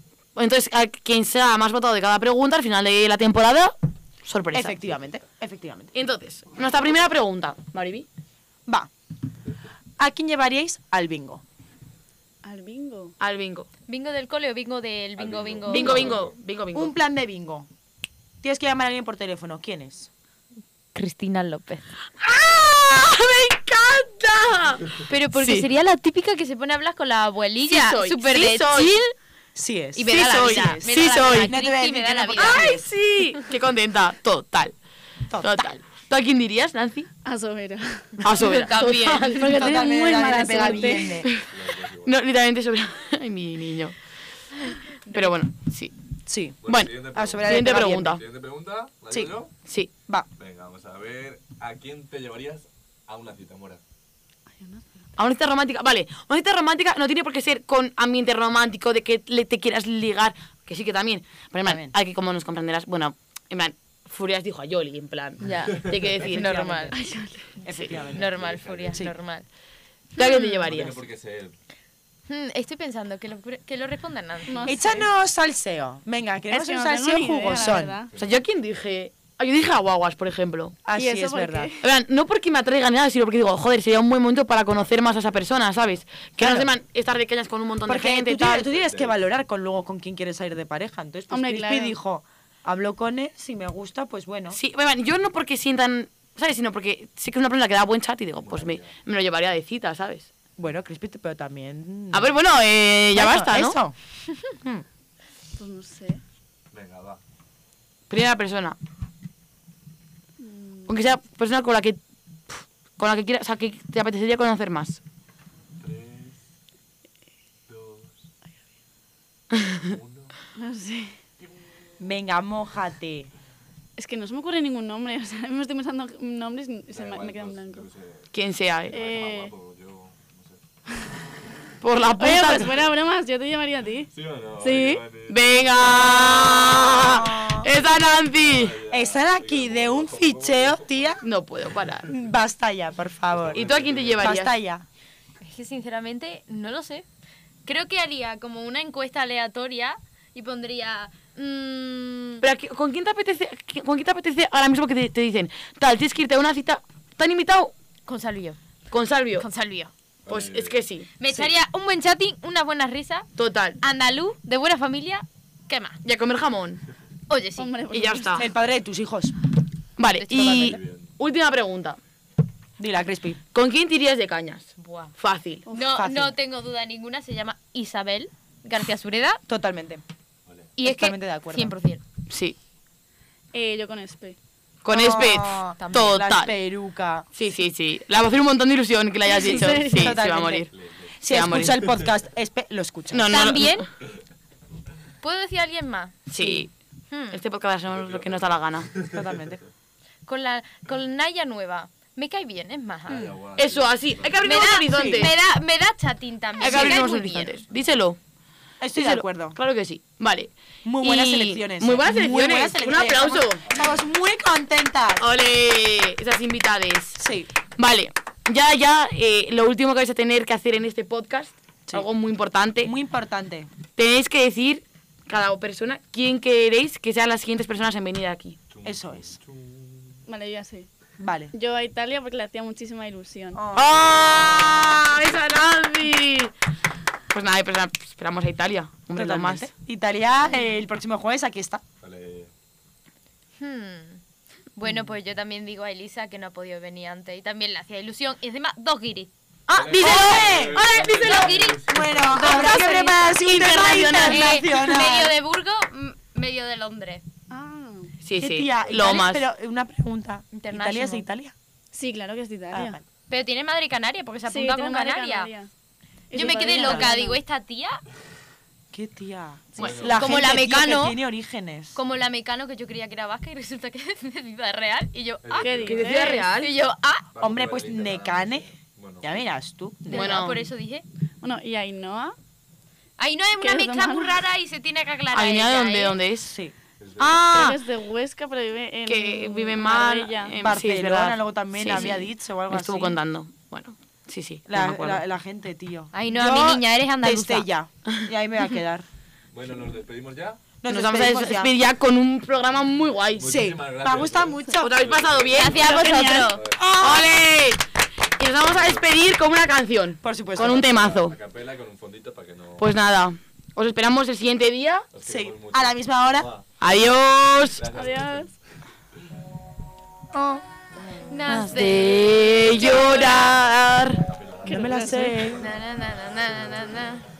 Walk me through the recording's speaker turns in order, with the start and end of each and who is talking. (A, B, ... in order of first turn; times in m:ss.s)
0:00.3-0:04.7 A
0:04.5-0:05.9 B
0:05.9-0:08.1 A
0:08.6-0:08.9 B
0:10.0-0:11.4 B
0:12.4-0:13.1 C
0:13.2-0:13.7 A
0:13.9-0:16.1 D
0:15.2-0:16.3 E
0:15.7-0:16.9 A
0:15.7-0:16.1 B
0:16.7-0:17.7 B
0:18.4-0:20.1 B
0:20.9-0:22.0 D
0:22.2-0:25.7 A
0:25.1-0:29.1 D
0:27.6-0:29.0 A
0:29.5-0:32.8 B
0:29.9-0:32.7 D
0:30.1-0:31.5 A
0:32.4-0:34.7 A
0:35.3-0:35.7 B
0:35.4-0:37.1 A
0:37.2-0:38.2 C
0:38.2-0:41.4 A
0:38.2-0:39.5 D
0:39.3-0:41.4 C
0:39.4-0:41.3 B
0:41.4-0:42.1 E
0:42.0-0:44.0 A
0:44.6-0:45.4 D
0:45.1-0:45.9 A
0:46.3-0:48.2 B
0:46.6-0:49.5 E
0:46.6-0:46.9 A
0:47.4-0:48.2 A
0:50.4-0:53.8 E
0:54.6-0:54.8 C
0:55.2-1:06.7 A
1:01.6-1:01.9 B
1:05.4-1:07.0 D
1:06.2-1:06.9 B
1:06.9-1:07.6 C
1:07.6-1:08.2 B
1:07.7-1:07.9 A
1:07.9-1:09.1 E
1:08.1-1:09.4 D
1:10.2-1:11.0 A
1:10.2-1:10.6 D
1:10.7-1:11.5 E
1:12.3-1:15.0 D
1:14.5-1:15.0 C
1:14.6-1:18.0 B
1:16.5-1:18.1 C
1:18.1-1:20.8 A
1:18.1-1:18.4 E
1:20.8-1:21.7 B
1:21.0-1:21.8 C
1:21.8-1:28.7 A
1:26.4-1:26.7 B
1:27.9-1:34.6 B
1:28.6-1:29.2 E
1:31.3-1:32.0 C
1:34.5-1:40.3 A
1:38.4-1:39.0 E
1:40.6-1:42.3 B
1:42.1-1:43.8 A
1:43.1-1:44.8 B
1:45.6-1:46.2 C
1:46.7-1:47.2 E
1:48.1-1:48.8 A
1:50.4-1:51.0 C
1:50.9-1:55.0 A
1:55.8-1:56.4 E
1:57.7-1:58.3 E
1:59.7-2:00.3 E
2:00.6-2:01.2 C
2:02.0-2:03.3 B
2:04.0-2:07.9 C
2:06.9-2:08.3 E
2:08.3-2:09.0 A
2:08.9-2:09.5 C
2:08.9-2:10.6 E
2:11.8-2:12.7 A
2:12.2-2:15.0 C
2:14.1-2:17.1 E
2:15.3-2:18.8 A
2:16.9-2:17.7 B
2:18.1-2:21.2 E
2:18.9-2:21.2 B
2:21.2-2:22.1 A
2:22.1-2:23.6 B
2:23.3-2:24.4 E
2:23.5-2:24.6 A
2:24.2-2:24.8 B
2:25.4-2:27.0 D
2:27.6-2:32.4 D
2:32.4-2:37.7 A
2:38.1-2:38.6 D
2:38.9-2:39.5 A
2:39.4-2:39.9 D
2:40.2-2:40.8 E
2:40.3-2:41.5 A
2:41.2-2:43.3 D
2:43.4-2:43.8 A
2:43.8-2:46.0 D
2:46.0-2:46.8 A
2:47.3-2:47.8 D
2:47.6-2:48.5 C
2:47.9-2:48.5 A
2:48.4-2:49.4 B
2:50.0-2:52.0 A
2:50.1-2:50.6 D
2:50.3-2:50.8 B
2:50.5-2:51.1 E
2:52.8-2:53.4 B
2:53.5-2:55.6 A
2:54.8-2:55.1 D
2:55.7-2:59.4 D
2:55.9-2:56.3 B
2:59.5-3:00.0 B
3:00.8-3:02.0 D
3:00.8-3:01.7 B
3:02.3-3:02.6 A
3:03.5-3:04.4 C
3:04.8-3:06.5 A
3:04.9-3:07.2 B
3:05.8-3:06.2 D
3:07.3-3:10.7 A
3:09.3-3:10.2 C
3:09.4-3:10.7 B
3:10.7-3:12.0 E
3:11.2-3:13.5 B
3:11.2-3:11.9 A
3:13.1-3:13.9 A
3:13.2-3:13.9 D
3:15.2-3:17.4 D
3:16.3-3:16.7 A
3:17.3-3:18.9 A
3:17.8-3:19.6 E
3:19.1-3:19.6 B
3:20.2-3:23.2 D
3:23.1-3:24.4 E
3:23.1-3:23.3 B
3:23.6-3:25.3 A
3:24.4-3:27.6 D
3:24.5-3:25.3 B
3:26.6-3:28.2 A
3:28.8-3:29.6 B
3:28.9-3:33.6 A
3:30.8-3:35.2 B
3:33.7-3:34.0 E
3:35.2-3:37.2 A
3:37.2-3:37.5 B
3:37.8-3:42.9 A
3:42.8-3:43.7 B
3:44.0-3:48.6 A
3:48.7-3:50.2 E
3:48.8-3:49.4 B
3:50.3-3:50.9 C
3:51.2-3:51.5 B
3:51.5-3:53.6 C
3:53.5-3:55.1 B
3:53.7-3:56.5 A
3:54.0-3:54.4 E
3:57.3-3:59.7 A
3:59.1-4:01.8 B
4:02.0-4:02.5 E
4:03.6-4:04.2 D
4:04.7-4:09.3 D
4:09.7-4:15.3 B
4:09.7-4:12.5 E
4:09.9-4:11.4 A
4:09.9-4:13.4 D
4:12.4-4:15.0 A
4:14.1-4:17.2 D
4:17.5-4:18.1 C
4:18.2-4:19.5 A
4:18.4-4:21.5 B
4:20.5-4:21.3 D
4:21.9-4:23.0 C
4:22.7-4:23.0 B
4:23.3-4:25.5 D
4:24.4-4:25.7 C
4:26.3-4:27.4 C
4:26.3-4:28.0 D
4:26.4-4:27.1 B
4:28.9-4:32.0 B
4:29.8-4:30.1 A
4:29.8-4:30.4 E
4:30.1-4:31.2 D
4:31.9-4:37.2 D
4:35.4-4:36.2 E
4:35.5-4:36.4 C
4:35.8-4:36.7 A
4:37.3-4:39.4 E
4:37.4-4:38.7 B
4:39.2-4:40.4 B
4:40.1-4:41.0 D
4:40.1-4:40.7 A
4:41.4-4:42.4 C
4:43.2-4:46.2 D
4:43.6-4:44.4 C
4:45.3-4:46.5 A
4:46.4-4:47.8 B
4:47.0-4:47.7 E
4:47.4-4:50.6 C
4:49.0-4:55.2 A
4:50.6-4:53.2 B
4:54.6-4:59.0 B
4:56.1-4:57.7 D
4:59.5-5:00.6 E
5:00.8-5:01.7 B
5:00.9-5:03.6 A
5:03.4-5:07.3 E
5:03.5-5:04.9 B
5:04.8-5:06.0 A
5:05.6-5:06.6 D
5:05.6-5:06.6 C
5:06.7-5:07.3 B
5:07.0-5:07.8 A
5:08.4-5:09.1 E
5:08.4-5:11.4 A
5:10.2-5:11.1 B
5:10.6-5:12.9 E
5:12.8-5:15.1 A
5:15.1-5:16.6 E
5:15.2-5:16.5 B
5:16.8-5:17.8 A
5:17.8-5:18.6 E
5:17.9-5:18.5 C
5:20.3-5:21.4 B
5:21.3-5:23.6 D
5:21.5-5:24.2 A
5:23.2-5:25.7 E
5:24.6-5:25.4 C
5:24.7-5:25.6 B
5:25.6-5:27.2 D